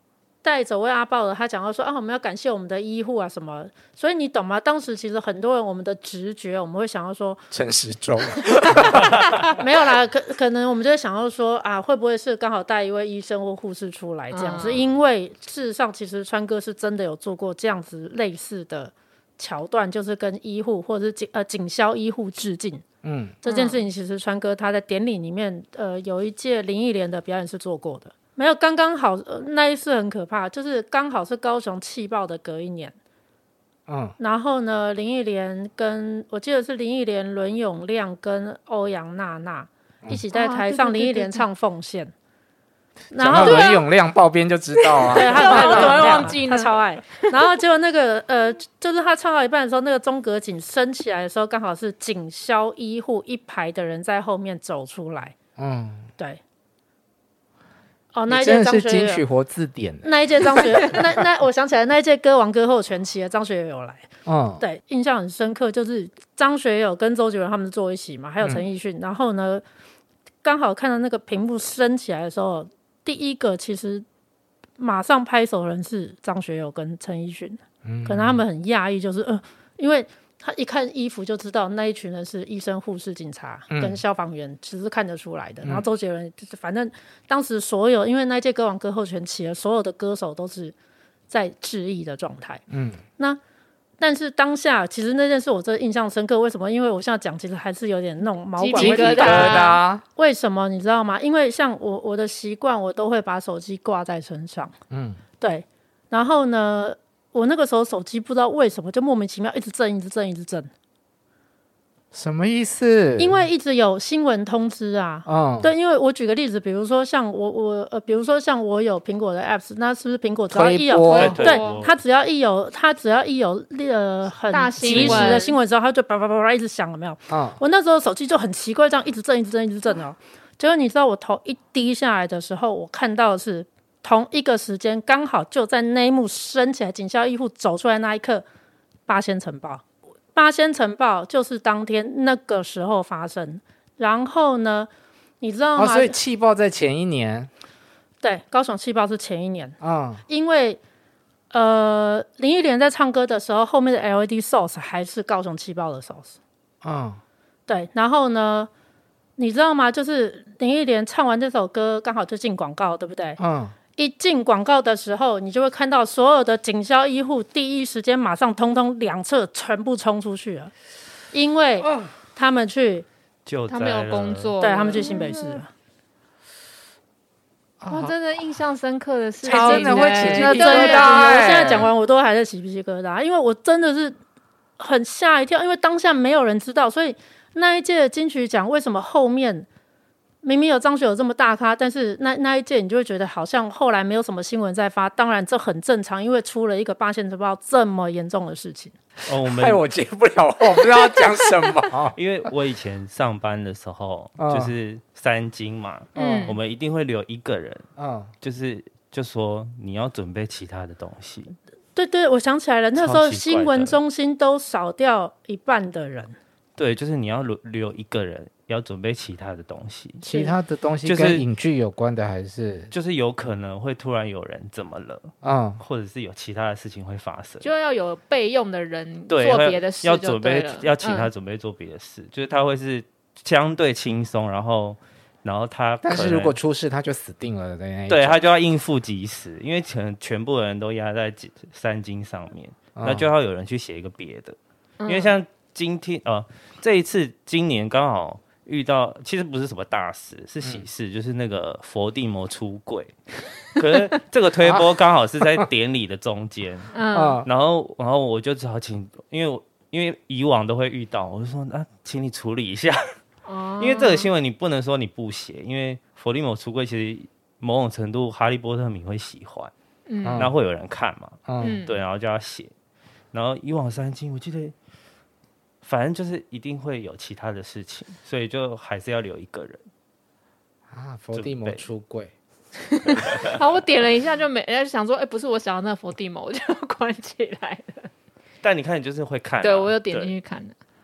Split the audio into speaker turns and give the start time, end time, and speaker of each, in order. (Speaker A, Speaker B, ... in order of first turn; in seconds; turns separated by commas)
Speaker A: 0.4-7.4, Speaker B: 7.5-9.2, Speaker A: 9.5-22.8, Speaker C: 14.3-14.8, Speaker B: 23.0-23.4, Speaker A: 23.4-32.9, Speaker C: 23.4-23.8, Speaker B: 33.9-34.1, Speaker A: 34.2-42.1, Speaker C: 40.3-41.5, Speaker A: 43.1-43.8, Speaker B: 43.1-46.4, Speaker C: 43.4-43.8, Speaker C: 44.9-46.7, Speaker A: 45.1-55.3, Speaker B: 55.6-56.1, Speaker A: 58.1-59.2, Speaker B: 58.3-61.0, Speaker A: 60.0-64.1, Speaker B: 64.2-64.6, Speaker A: 64.6-69.6, Speaker A: 70.4-74.0, Speaker A: 74.8-90.7, Speaker B: 77.8-78.4, Speaker B: 83.7-84.0, Speaker A: 91.3-92.6, Speaker B: 92.7-93.0, Speaker A: 94.0-104.7, Speaker C: 98.6-99.8, Speaker B: 98.7-100.0, Speaker B: 104.9-105.2, Speaker A: 105.4-110.7, Speaker B: 112.1-113.4, Speaker A: 113.2-138.4, Speaker B: 115.2-115.7, Speaker B: 120.5-121.5, Speaker C: 121.0-121.9, Speaker D: 121.2-121.9, Speaker C: 124.5-125.5, Speaker B: 124.9-125.4, Speaker B: 127.3-127.6, Speaker A: 139.1-144.9, Speaker A: 145.4-146.2, Speaker B: 145.8-147.5, Speaker A: 148.2-149.8, Speaker B: 149.8-150.2, Speaker A: 150.3-150.8, Speaker A: 151.5-156.4, Speaker B: 156.8-157.2, Speaker A: 157.7-158.7, Speaker A: 159.4-163.4, Speaker B: 163.4-163.7, Speaker A: 164.0-170.7, Speaker A: 171.3-173.1, Speaker D: 173.4-174.5, Speaker C: 173.7-175.6, Speaker A: 174.6-175.7, Speaker B: 177.8-178.1, Speaker C: 177.9-181.7, Speaker A: 179.4-184.2, Speaker B: 179.4-181.9, Speaker A: 184.8-189.7, Speaker A: 190.4-198.9, Speaker D: 199.3-199.8, Speaker B: 199.4-202.2, Speaker D: 202.1-207.9, Speaker B: 204.4-204.7, Speaker C: 206.2-206.6, Speaker B: 206.2-206.5, Speaker B: 208.0-208.3, Speaker D: 208.4-211.6, Speaker A: 211.9-216.4, Speaker D: 212.9-214.0, Speaker D: 216.8-220.2, Speaker B: 220.2-222.9, Speaker D: 221.0-221.5, Speaker D: 222.9-227.7, Speaker B: 225.4-225.8, Speaker C: 227.6-231.3, Speaker D: 229.3-236.6, Speaker B: 236.0-238.4, Speaker D: 238.1-244.6, Speaker B: 242.9-243.3, Speaker C: 245.0-245.3, Speaker D: 245.1-263.1, Speaker C: 256.9-257.4, Speaker B: 257.1-257.5, Speaker C: 263.4-264.3, Speaker D: 263.8-269.7, Speaker C: 270.1-270.5, Speaker B: 270.2-270.5, Speaker D: 270.3-272.7, Speaker B: 271.5-271.8, Speaker C: 271.6-271.9, Speaker D: 273.3-274.7, Speaker D: 275.8-279.8, Speaker B: 280.9-282.3, Speaker D: 281.3-281.8, Speaker C: 283.1-288.1, Speaker D: 283.1-283.4, Speaker D: 288.6-290.3, Speaker C: 289.6-290.8